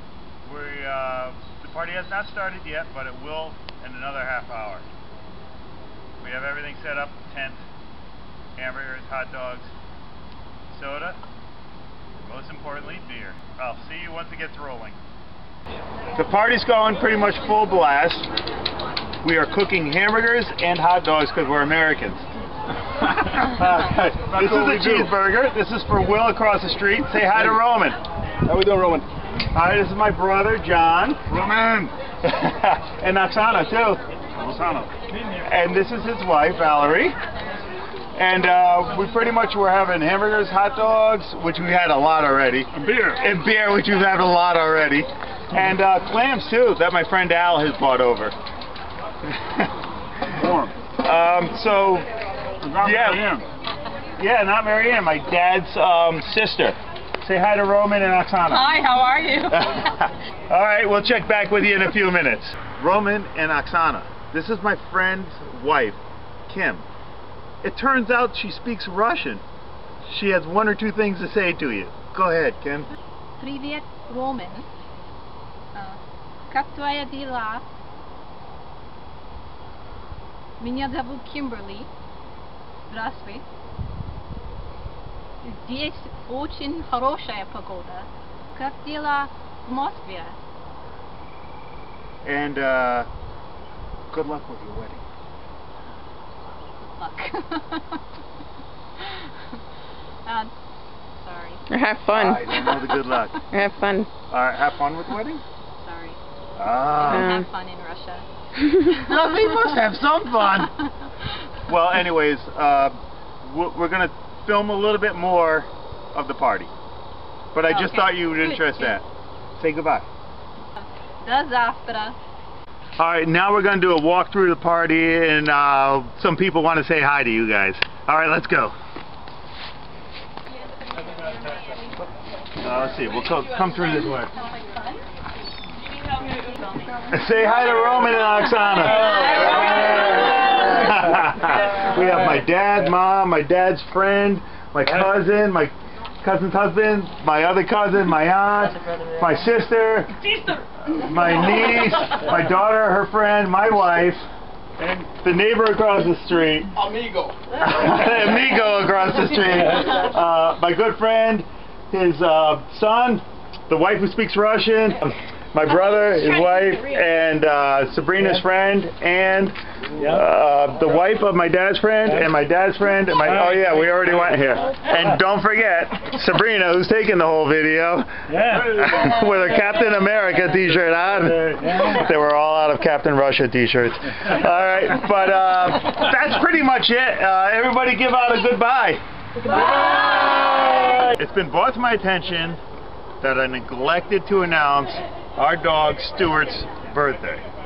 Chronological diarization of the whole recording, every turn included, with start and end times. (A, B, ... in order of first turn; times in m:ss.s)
0:00.4-0:04.9 A
0:06.2-0:07.6 A
0:08.6-0:09.7 A
0:10.7-0:11.2 A
0:12.2-0:15.0 A
0:16.2-0:18.3 A
0:19.2-0:22.2 A
0:23.2-0:28.0 A
0:24.3-0:25.1 B
0:28.4-0:29.1 B
0:29.5-0:31.3 A
0:31.3-0:31.9 B
0:32.2-0:34.0 A
0:34.4-0:34.9 B
0:35.4-0:37.2 A
0:38.2-0:48.4 A
0:42.7-0:43.2 B
0:49.3-0:49.7 A
0:50.4-0:50.7 B
0:51.0-0:52.0 A
0:52.6-0:53.4 B
0:52.8-0:53.4 A
0:54.2-0:58.8 A
0:58.5-0:59.7 C
0:59.5-1:06.8 A
1:07.6-1:09.4 A
1:10.0-1:12.9 A
1:13.4-1:14.7 C
1:16.5-1:17.7 C
1:20.6-1:21.9 C
1:22.9-1:23.4 C
1:25.4-1:30.4 C
1:32.2-1:33.1 A
1:34.1-1:35.0 A
1:37.0-1:38.0 C
1:39.0-1:39.6 C
1:40.2-1:40.5 C
1:41.2-1:41.6 C
1:41.7-1:42.8 D
1:42.1-1:43.4 A
1:43.5-1:44.1 D
1:44.3-1:45.4 A
1:45.8-1:46.2 C
1:46.6-1:47.3 A
1:47.0-1:49.9 C
1:47.1-1:47.4 D
1:48.9-1:50.7 A
1:50.5-1:50.9 C
1:51.7-1:56.7 A
1:57.5-1:59.0 A
1:57.7-1:59.0 C
1:59.6-2:00.0 A
2:00.8-2:02.2 C
2:03.0-2:08.8 A
2:12.6-2:14.3 A
2:14.4-2:15.0 C
2:17.1-2:30.1 A
2:19.1-2:19.6 C
2:30.8-2:34.3 A
2:35.1-2:36.8 A
2:36.9-2:37.4 B
2:37.5-3:09.0 A
3:10.8-3:12.6 A
3:13.2-3:17.4 A